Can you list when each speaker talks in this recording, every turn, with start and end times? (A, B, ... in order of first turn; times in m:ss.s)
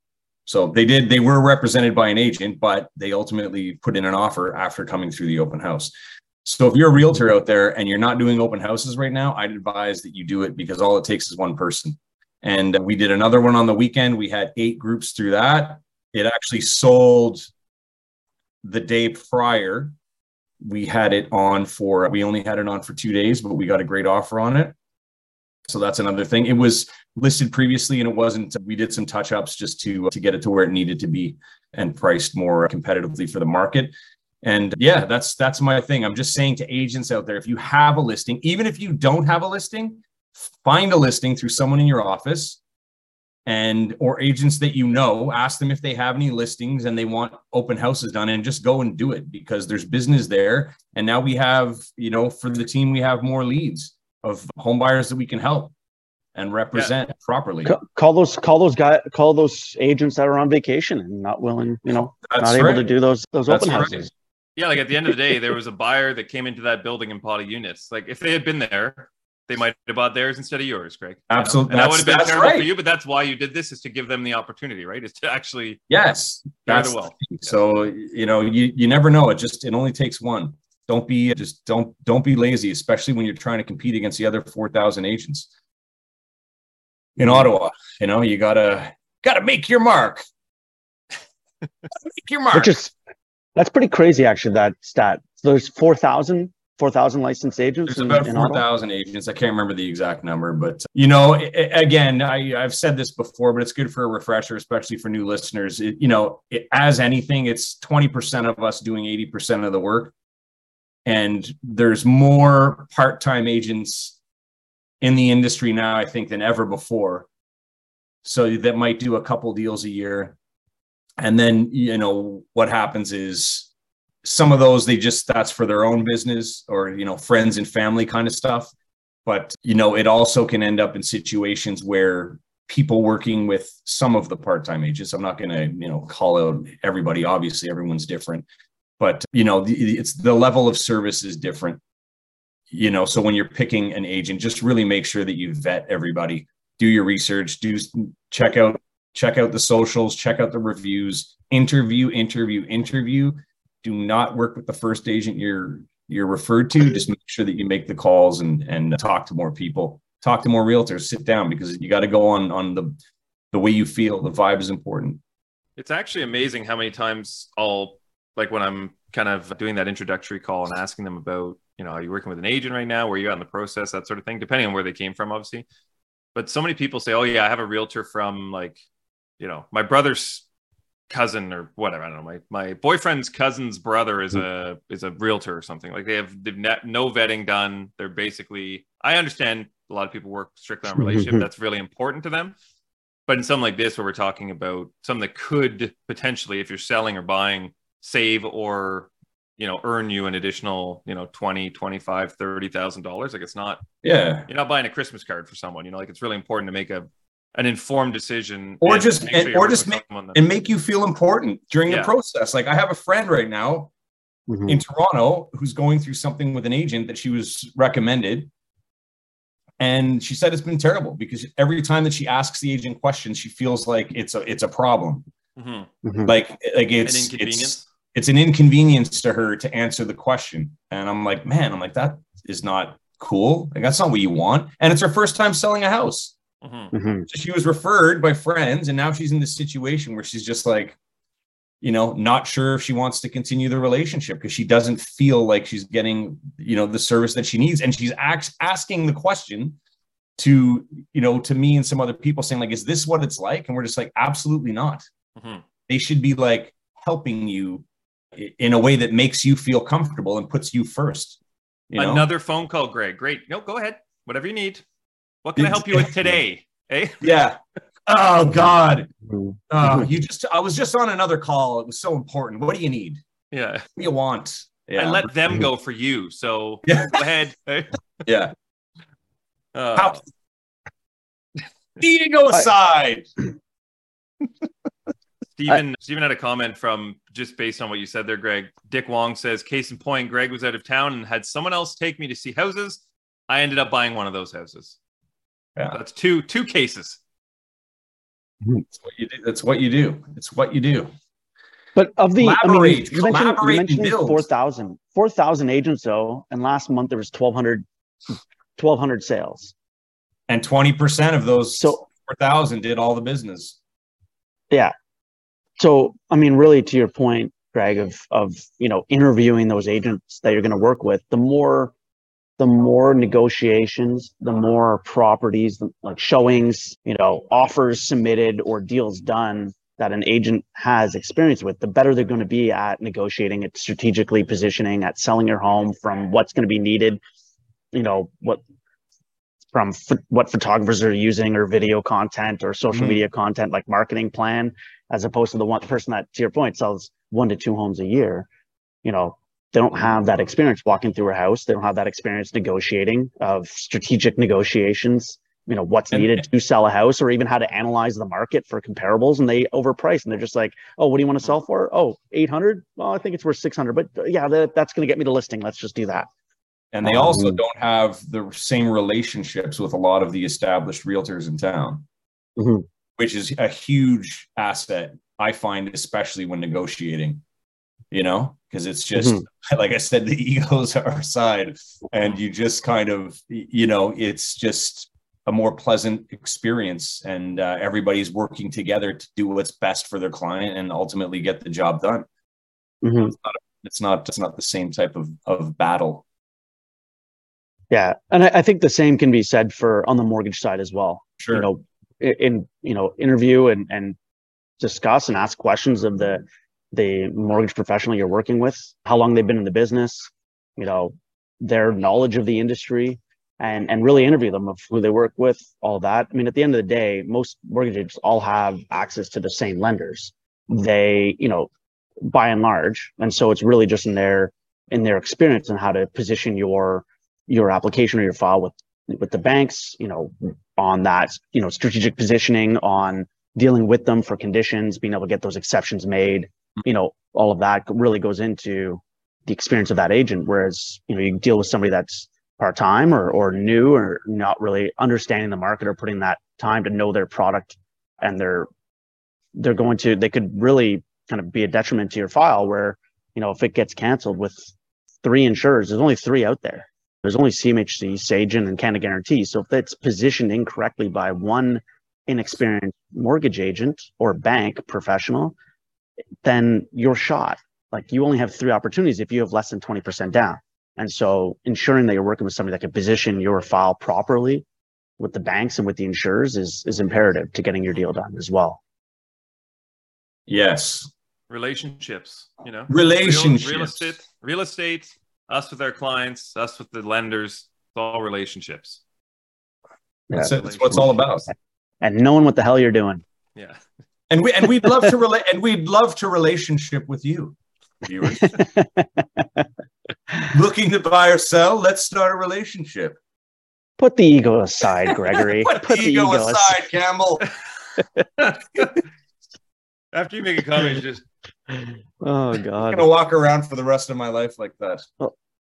0:00.5-0:05.9 A
0:06.4-0:17.5 A
0:18.6-0:20.0 A
0:20.6-0:24.8 A
0:25.7-0:42.6 A
0:43.5-0:55.7 A
0:56.4-0:57.8 A
0:57.6-1:04.1 B
1:01.9-1:02.9 A
1:03.5-1:04.1 A
1:04.6-1:15.8 C
1:11.3-1:12.7 A
1:15.9-1:25.5 A
1:16.6-1:17.9 C
1:27.2-1:30.2 A
1:32.0-1:32.8 A
1:32.5-1:32.9 B
1:33.6-1:38.6 B
1:37.9-1:50.1 A
1:51.0-1:54.2 A
1:55.0-1:57.3 A
1:58.2-2:00.4 A
2:01.2-2:03.7 A
2:04.2-2:08.7 A
2:09.3-2:18.5 A
2:19.0-2:21.8 A
2:22.7-2:43.0 A
2:43.5-2:45.2 A
2:45.8-2:55.7 C
2:56.4-2:58.8 C
2:59.4-3:00.4 C
3:01.1-3:12.6 C
3:11.0-3:11.5 B
3:13.3-3:23.8 C
3:24.0-3:24.5 A
3:24.5-3:30.4 C
3:28.8-3:33.9 A
3:31.9-3:32.1 C
3:34.5-3:34.8 B
3:34.7-3:38.5 A
3:39.8-3:45.3 A
3:45.6-3:45.9 C
3:46.0-3:46.3 B
3:46.2-3:56.3 A
3:47.0-3:47.8 C
3:56.6-3:56.9 C
3:56.9-3:57.3 B
3:57.3-4:01.0 A
4:01.8-4:09.8 A
4:10.4-4:15.1 A
4:15.4-4:15.6 C
4:15.9-4:21.4 A
4:21.9-4:22.3 A
4:22.0-4:24.8 C
4:25.4-4:27.2 C
4:25.6-4:26.2 A
4:27.2-4:29.1 A
4:29.3-4:29.6 B
4:29.7-4:33.2 A
4:33.5-4:33.9 C
4:34.0-4:35.3 A
4:35.0-4:37.9 C
4:36.9-4:37.2 A
4:38.2-4:38.5 A
4:39.7-4:40.2 C
4:40.0-4:40.2 A
4:42.0-4:43.3 A
4:45.6-4:55.0 C
4:55.9-4:57.2 C
4:58.8-5:01.1 A
5:02.0-5:09.7 B
5:02.4-5:04.5 A
5:10.5-5:13.8 A
5:15.8-5:21.9 B
5:22.6-5:37.2 B
5:37.9-5:38.6 B
5:39.7-5:48.5 B
5:42.9-5:43.3 A
5:49.0-6:06.3 B
5:56.1-5:56.4 A
6:06.9-6:12.0 A
6:07.0-6:07.6 B
6:12.6-6:12.9 B
6:13.2-6:17.4 A
6:18.1-6:32.3 A
6:19.2-6:19.4 B
6:33.0-6:33.4 B
6:33.3-6:36.2 A
6:37.9-6:44.2 B
6:41.4-6:41.7 A
6:44.8-7:01.7 B
7:02.2-7:28.7 B
7:29.6-7:45.6 B
7:46.4-7:54.6 B
7:55.2-7:58.8 B
8:00.5-8:01.1 A
8:01.5-8:09.0 C
8:02.9-8:04.1 A
8:10.3-8:11.1 B
8:10.3-8:11.5 A
8:10.6-8:11.0 C
8:12.0-8:13.2 B
8:13.6-8:13.8 C
8:14.3-8:18.6 A
8:18.2-8:19.7 B
8:20.5-8:23.2 A
8:24.0-8:26.8 B
8:25.1-8:27.6 A
8:30.1-8:31.2 C
8:31.7-8:33.0 B
8:32.9-8:35.1 A